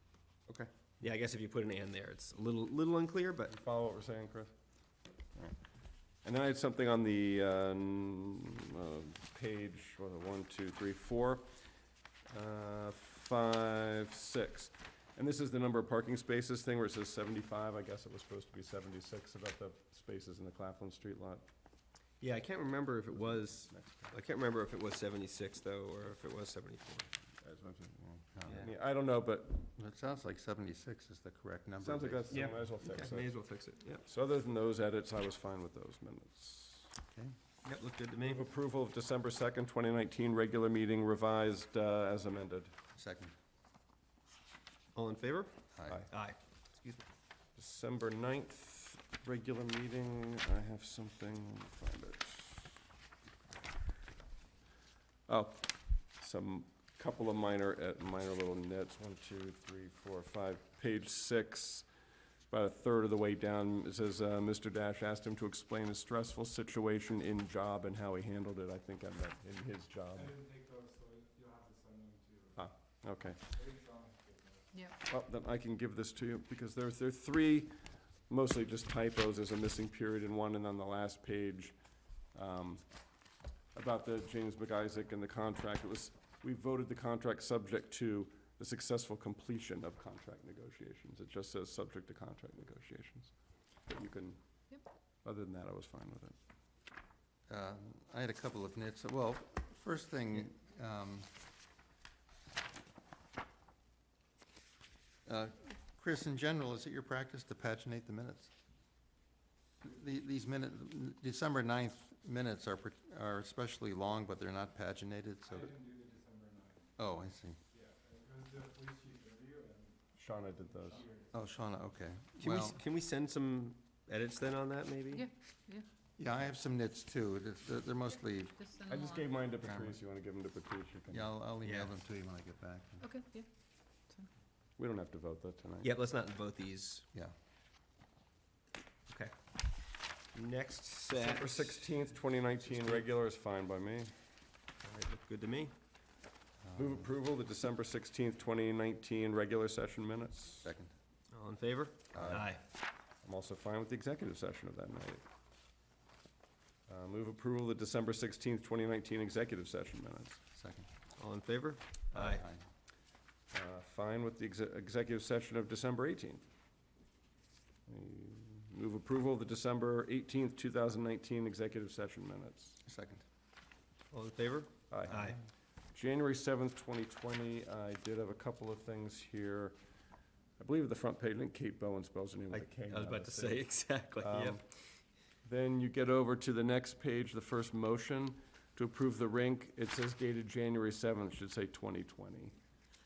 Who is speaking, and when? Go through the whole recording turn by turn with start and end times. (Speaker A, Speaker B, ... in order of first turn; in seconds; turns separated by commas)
Speaker A: 0.5-3.5, Speaker B: 3.5-4.5, Speaker B: 6.2-11.7, Speaker B: 12.3-21.4, Speaker A: 22.2-27.1, Speaker B: 23.7-24.1, Speaker B: 27.4-29.7, Speaker C: 28.3-28.7, Speaker C: 29.8-32.4, Speaker B: 31.8-33.4, Speaker A: 32.3-34.1, Speaker B: 34.1-37.0, Speaker C: 37.1-37.3, Speaker A: 37.6-38.4, Speaker B: 38.2-42.8, Speaker C: 43.0-43.4, Speaker A: 45.0-45.5, Speaker C: 45.8-46.1, Speaker A: 46.1-47.0, Speaker B: 47.6-52.8, Speaker B: 55.3-61.9, Speaker B: 62.5-70.4, Speaker B: 72.5-73.6, Speaker B: 75.0-81.8, Speaker B: 82.3-82.8, Speaker B: 83.7-93.3, Speaker B: 93.9-94.4, Speaker B: 95.2-96.4, Speaker C: 97.5-101.3, Speaker C: 105.3-108.5, Speaker C: 109.8-115.8, Speaker C: 117.0-117.6, Speaker B: 120.2-121.1, Speaker C: 121.3-122.8, Speaker A: 122.4-125.3, Speaker D: 125.1-125.9, Speaker C: 126.2-128.6, Speaker D: 128.6-129.4, Speaker B: 128.9-131.3, Speaker C: 129.6-130.0, Speaker C: 131.1-133.0, Speaker A: 131.6-131.9, Speaker D: 133.0-133.5, Speaker B: 134.8-135.9, Speaker A: 135.8-137.1, Speaker A: 139.1-139.3, Speaker A: 140.3-141.8, Speaker B: 141.1-144.1, Speaker A: 142.8-143.1, Speaker A: 144.8-145.7, Speaker C: 146.6-147.1, Speaker B: 146.8-150.7, Speaker C: 150.6-150.9, Speaker A: 151.3-152.6, Speaker C: 152.1-152.4, Speaker B: 152.2-152.6, Speaker B: 153.2-155.2, Speaker B: 156.9-160.4, Speaker C: 160.6-160.9, Speaker A: 161.2-162.4, Speaker C: 162.1-162.6, Speaker B: 163.5-166.4, Speaker B: 167.9-172.8, Speaker C: 172.8-173.2, Speaker A: 174.1-175.4, Speaker B: 174.9-175.4, Speaker B: 175.9-179.8, Speaker B: 180.6-192.6, Speaker A: 182.5-184.6